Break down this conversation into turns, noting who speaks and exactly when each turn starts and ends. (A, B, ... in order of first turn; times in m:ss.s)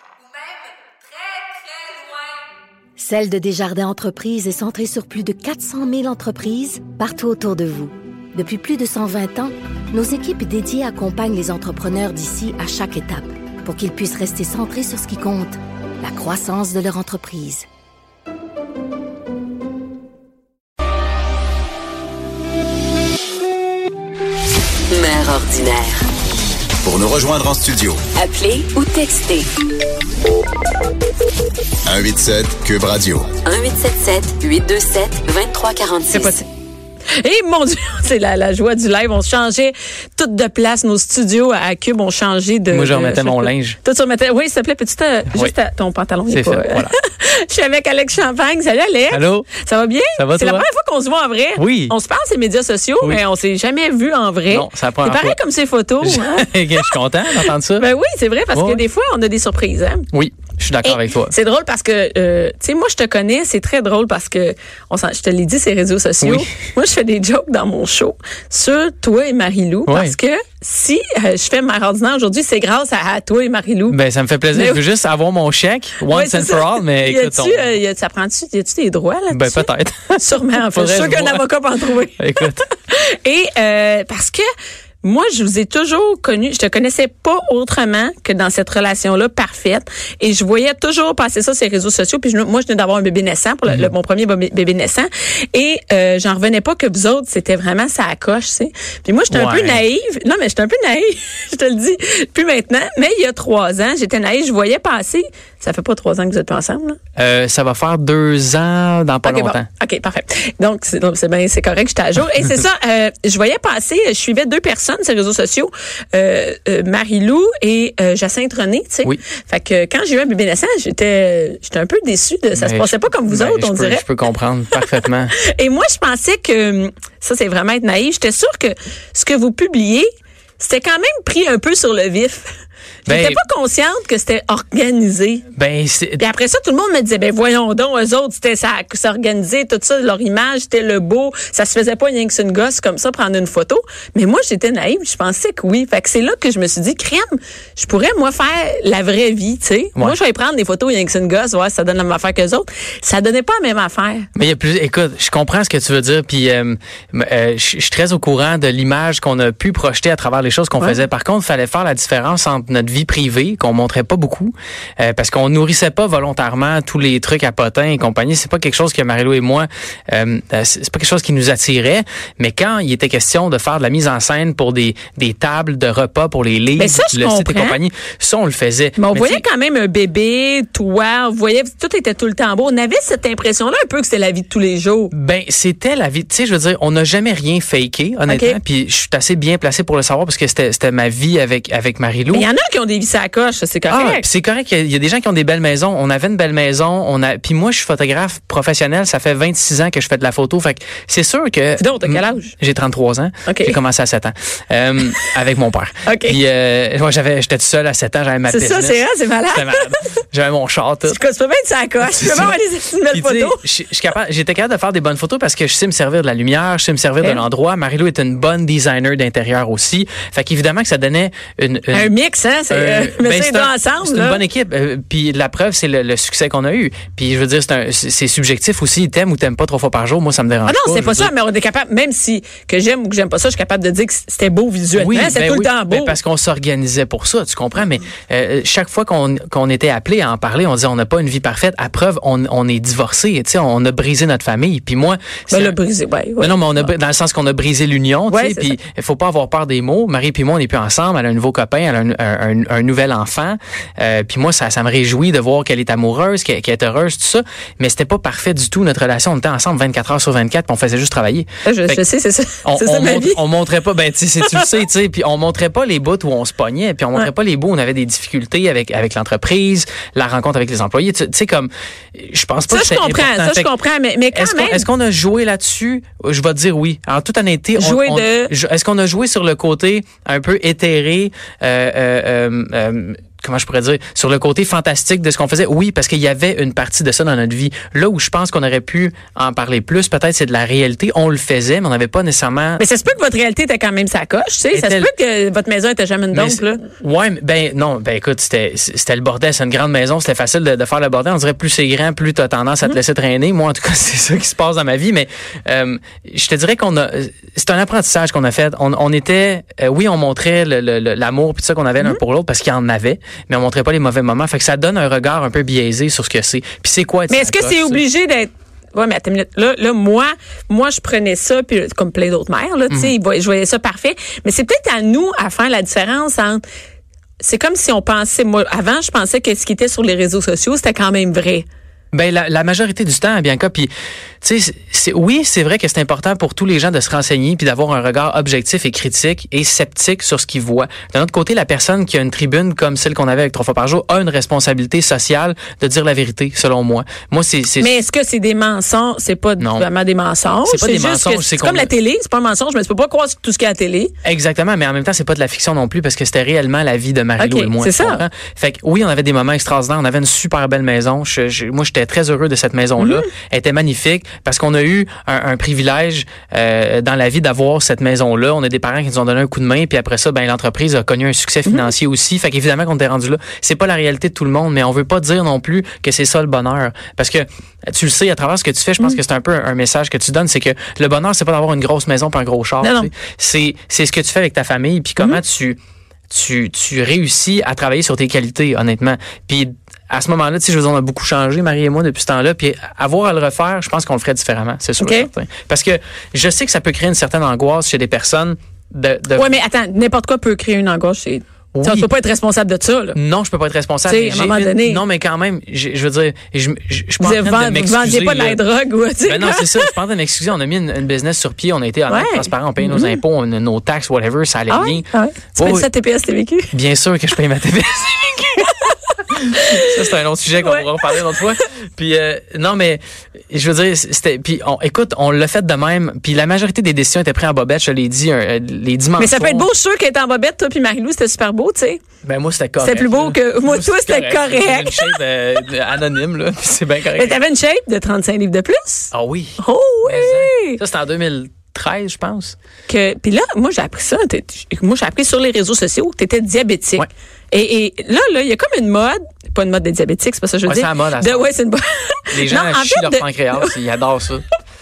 0:01.5-0:01.9 A
0:03.0-0:17.7 B
0:24.9-0:26.0 C
0:26.8-0:28.0 D
0:28.2-0:29.4 C
0:31.8-0:33.4 D
0:33.5-0:36.3 C
0:36.1-0:36.5 A
0:37.2-0:56.9 A
0:42.7-0:43.8 E
0:46.3-0:46.9 E
0:49.1-0:49.5 E
0:50.2-0:50.7 E
0:51.6-0:52.0 E
0:54.5-0:55.4 E
0:56.0-0:57.9 E
0:57.5-1:00.1 A
0:58.5-0:58.8 E
1:00.1-1:01.4 E
1:00.9-1:14.0 A
1:06.2-1:06.5 E
1:09.9-1:10.2 E
1:13.9-1:17.8 E
1:14.5-1:14.8 A
1:16.1-1:24.5 A
1:19.3-1:21.4 E
1:22.2-1:22.6 E
1:25.0-1:47.0 A
1:39.3-1:39.8 E
1:47.2-1:49.7 E
1:49.2-2:04.0 A
2:02.6-2:05.3 E
2:04.8-2:10.1 A
2:10.6-2:12.5 A
2:13.1-2:13.4 E
2:13.1-2:15.5 A
2:15.6-2:16.2 E
2:16.2-2:34.3 A
2:34.4-2:59.4 E
2:56.8-2:57.8 A
2:59.0-3:05.1 A
3:05.1-3:12.5 E
3:08.3-3:08.6 A
3:12.3-3:14.2 A
3:13.9-3:31.2 E
3:21.8-3:22.5 A
3:23.5-3:23.8 A
3:26.1-3:26.4 A
3:28.5-3:30.1 A
3:31.1-3:33.6 A
3:32.0-3:32.6 E
3:33.1-3:42.1 E
3:41.9-3:44.4 A
3:42.7-3:51.3 E
3:50.6-3:56.2 A
3:54.9-4:05.8 E
4:05.5-4:06.9 A
4:06.4-4:22.0 E
4:08.3-4:08.7 A
4:21.6-4:23.4 A
4:22.6-4:33.7 E
4:32.7-4:34.8 A
4:34.3-4:52.8 E
4:37.8-4:38.5 A
4:52.8-4:56.9 A
4:54.7-4:55.1 E
4:56.3-5:18.0 E
5:17.3-5:26.6 A
5:27.4-5:31.7 A
5:32.1-5:33.9 E
5:34.4-5:47.9 E
5:47.8-5:54.1 A
5:49.6-5:49.9 E
5:50.6-5:51.9 E
5:54.2-6:25.8 E
5:57.4-5:58.2 A
6:03.0-6:03.3 A
6:22.8-6:23.1 A
6:26.3-6:39.6 E
6:35.0-6:35.3 A
6:39.3-6:43.2 A
6:41.8-6:42.1 E
6:43.2-6:48.6 E
6:44.0-6:45.0 A
6:47.2-6:49.9 A
6:49.2-6:55.9 E
6:52.1-6:53.2 A
6:54.7-6:56.7 A
6:56.7-6:58.7 E
6:59.3-7:03.0 E
6:59.5-7:00.0 A
7:00.6-7:00.9 A
7:03.5-7:09.7 E
7:09.2-7:12.0 A
7:12.2-7:17.4 E
7:12.8-7:15.2 A
7:17.1-7:20.8 A
7:19.1-7:22.6 E
7:22.9-7:33.7 A
7:30.7-7:31.5 E
7:32.3-7:34.4 E